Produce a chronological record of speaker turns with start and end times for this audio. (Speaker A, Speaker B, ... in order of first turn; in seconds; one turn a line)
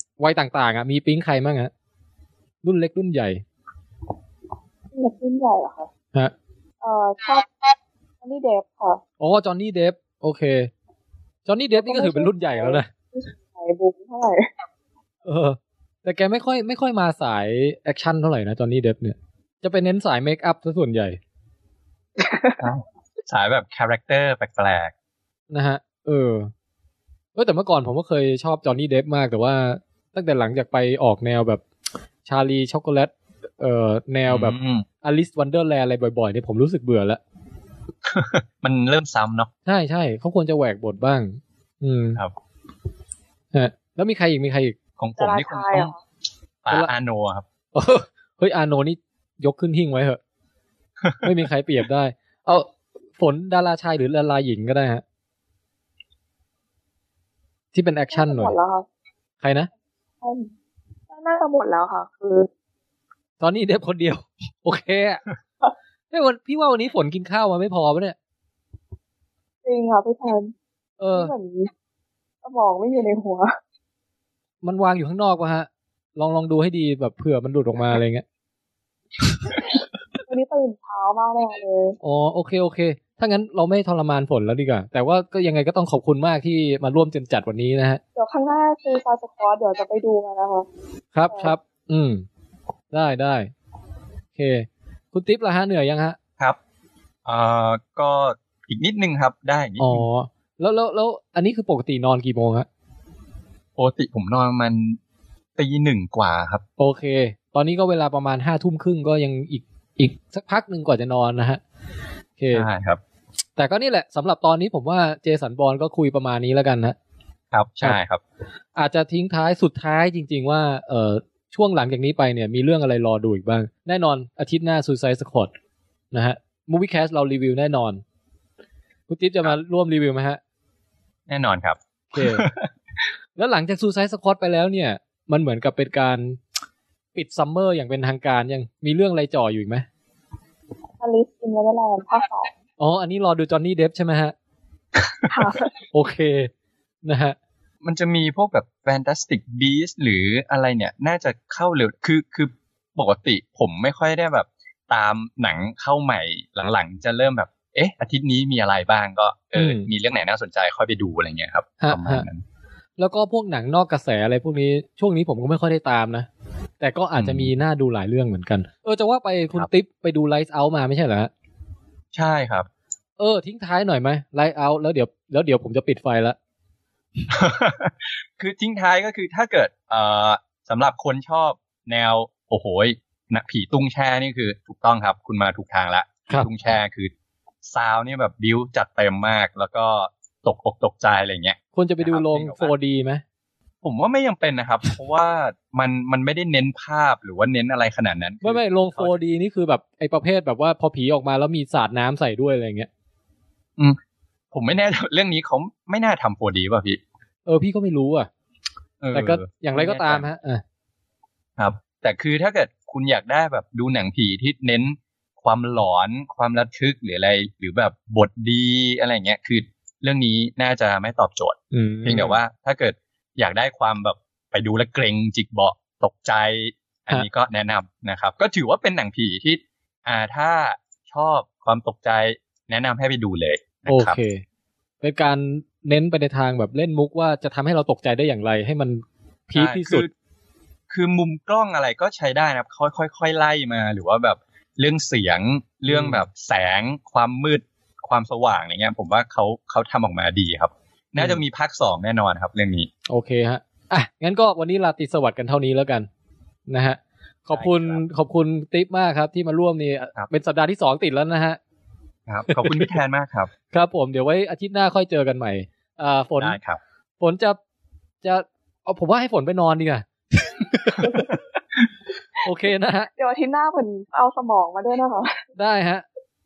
Speaker A: 0.2-1.7
Speaker A: 2.6-3.4
Speaker B: 4.9-5.9
Speaker B: 6.8-9.0
Speaker A: 9.2-10.7
Speaker A: 11.4-12.9
Speaker B: 11.7-14.5
Speaker A: 15.2-21.2
Speaker B: 22.2-22.6
Speaker C: 22.6-24.9
Speaker A: 25.5-26.5
Speaker A: 27.3-31.6
Speaker A: 32.2-37.2
Speaker C: 34.3-34.9
Speaker C: 38.0-39.5
Speaker A: 39.6-42.2
Speaker A: 43.5-44.8
Speaker C: 45.0-45.9
Speaker B: 45.2-46.0
Speaker C: 46.6-47.4
Speaker A: 47.7-50.2
Speaker A: 51.2-55.0
Speaker A: 57.7-58.5
Speaker B: 58.1-58.9
Speaker A: 59.4-59.7
Speaker B: 60.2-60.5
Speaker B: 61.1-62.5
Speaker A: 63.4-65.2
Speaker A: 66.1-68.2
Speaker B: 69.6-70.5
Speaker A: 71.0-71.3
Speaker B: 71.1-71.7
Speaker B: 72.4-73.6
Speaker A: 74.6-78.2
Speaker B: 80.2-82.0
Speaker A: 82.0-88.0
Speaker B: 88.2-90.7
Speaker A: 91.1-92.2
Speaker B: 91.3-91.5
Speaker A: 92.9-93.5
Speaker A: 94.3-96.2
Speaker C: 97.2-100.0
Speaker A: 99.8-102.7
Speaker C: 103.8-105.0
Speaker C: 105.6-106.6
Speaker A: 106.8-111.6
Speaker A: 112.4-112.7
Speaker C: 112.5-113.0
Speaker A: 113.6-117.0
Speaker C: 117.5-118.2
Speaker A: 118.8-125.5
Speaker A: 126.1-128.0
Speaker A: 129.1-130.4
Speaker C: 131.3-132.7
Speaker A: 132.1-132.4
Speaker A: 133.3-136.4
Speaker A: 137.1-139.8
Speaker B: 141.0-142.5
Speaker A: 142.8-144.3
Speaker B: 145.3-145.7
Speaker A: 145.9-146.5
Speaker A: 147.0-147.3
Speaker C: 147.8-162.4
Speaker A: 159.5-159.9
Speaker A: 161.8-162.2
Speaker A: 163.0-166.3
Speaker A: 166.8-171.3
Speaker C: 167.2-167.5
Speaker C: 172.1-172.7
Speaker A: 173.2-176.3
Speaker C: 177.3-187.1
Speaker C: 187.6-192.7
Speaker A: 191.7-193.2
Speaker C: 193.8-199.2
Speaker A: 198.4-202.9
Speaker C: 204.5-207.0
Speaker A: 207.4-208.3
Speaker C: 209.0-210.2
Speaker A: 209.1-210.6
Speaker C: 211.6-234.2
Speaker A: 221.7-222.4
Speaker A: 233.9-234.4
Speaker A: 235.0-240.1
Speaker C: 239.5-240.1
Speaker C: 240.9-252.9
Speaker A: 245.9-246.2
Speaker A: 253.1-256.1
Speaker A: 256.7-261.6
Speaker C: 257.5-258.0
Speaker C: 262.3-263.5
Speaker A: 262.5-262.9
Speaker A: 263.7-266.6
Speaker C: 266.4-266.8
Speaker A: 267.2-267.6
Speaker A: 268.2-271.3
Speaker A: 272.4-273.1
Speaker B: 273.1-275.4
Speaker A: 275.6-276.0